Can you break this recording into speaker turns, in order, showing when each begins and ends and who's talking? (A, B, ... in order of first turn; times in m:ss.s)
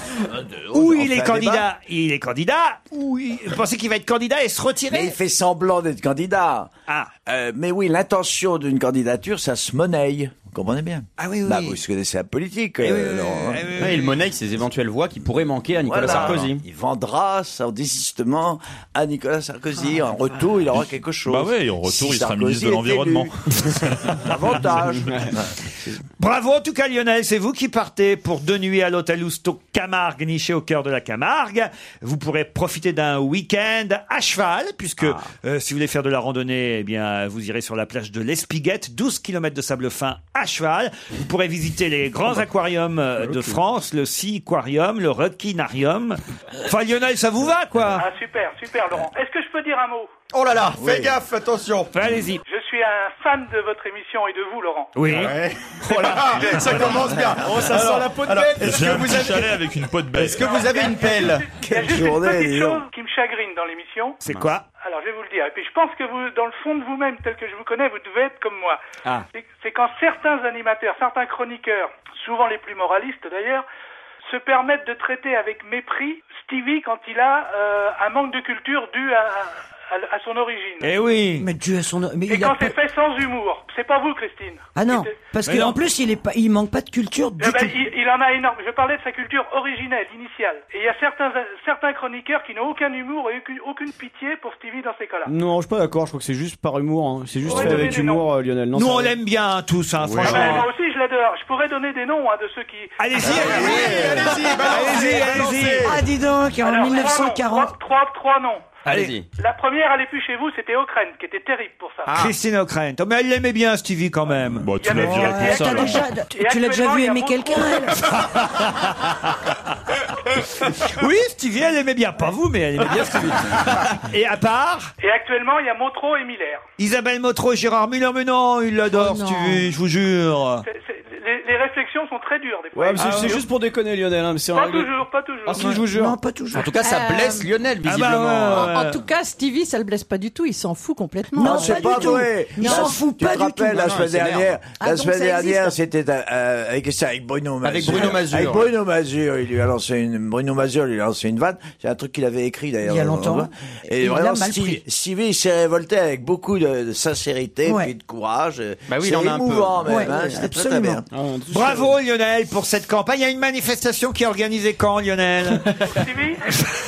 0:00.2-0:01.7 A
0:00.7-0:05.2 B
0:04.9-0:06.7 A
0:07.2-0:13.7 A
0:11.2-0:11.8 B
0:12.8-0:14.2 B
0:13.8-0:16.6 C
0:15.2-0:16.4 D
0:15.8-0:23.3 A
0:16.1-0:16.3 E
0:19.7-0:20.6 F
0:21.2-0:24.4 E
0:24.2-0:26.0 A
0:25.0-0:25.3 D
0:26.2-0:48.1 B
0:43.3-0:43.5 D
0:47.9-0:50.1 G
0:50.3-0:51.9 C
0:50.7-0:51.1 A
0:51.9-0:52.4 B
0:52.4-0:55.0 G
0:54.9-0:55.3 B
0:55.1-0:59.6 C
0:55.9-0:56.7 D
0:56.6-0:57.0 E
0:57.3-0:58.8 D
0:58.6-1:00.7 E
1:00.1-1:01.5 C
1:00.4-1:04.2 G
1:01.5-1:02.8 A
1:04.2-1:04.6 B
1:04.8-1:08.8 G
1:09.3-1:13.6 G
1:14.3-1:20.9 G
1:20.8-1:21.5 B
1:21.4-1:22.8 F
1:22.3-1:25.2 G
1:24.7-1:27.8 F
1:25.4-1:25.8 B
1:27.4-1:35.3 G
1:35.2-1:39.2 D
1:37.4-1:38.3 G
1:38.7-1:40.7 B
1:40.0-1:40.6 D
1:40.2-1:43.6 G
1:43.0-1:45.9 B
1:43.2-1:46.0 C
1:43.7-1:44.2 A
1:45.8-1:47.8 F
1:46.6-1:48.8 G
1:48.8-1:49.1 B
1:48.9-1:49.2 C
1:49.4-1:52.1 G
1:52.0-1:52.3 C
1:52.1-1:54.7 B
1:54.6-1:56.1 E
1:54.8-1:58.0 G
1:55.0-1:58.3 F
1:58.1-1:59.5 B
2:00.6-2:04.9 B
2:02.8-2:04.0 D
2:05.0-2:06.6 G
2:06.8-2:10.6 B
2:08.9-2:09.6 H
2:10.6-2:13.5 G
2:12.8-2:14.9 D
2:14.5-2:15.8 G
2:15.4-2:16.2 D
2:15.6-2:16.7 F
2:16.5-2:18.7 C
2:16.7-2:17.5 H
2:17.8-2:19.0 B
2:18.6-2:23.0 H
2:21.3-2:24.0 F
2:21.4-2:41.0 A
2:23.8-2:24.2 C
2:24.7-2:25.8 F
2:27.6-2:28.7 C
2:27.9-2:28.2 F
2:32.8-2:34.8 F
2:37.6-2:37.9 F
2:38.9-2:40.0 C
2:39.8-2:41.0 F
2:41.1-2:41.9 D
2:41.5-2:45.6 B
2:45.6-2:46.1 D
2:46.0-2:46.4 G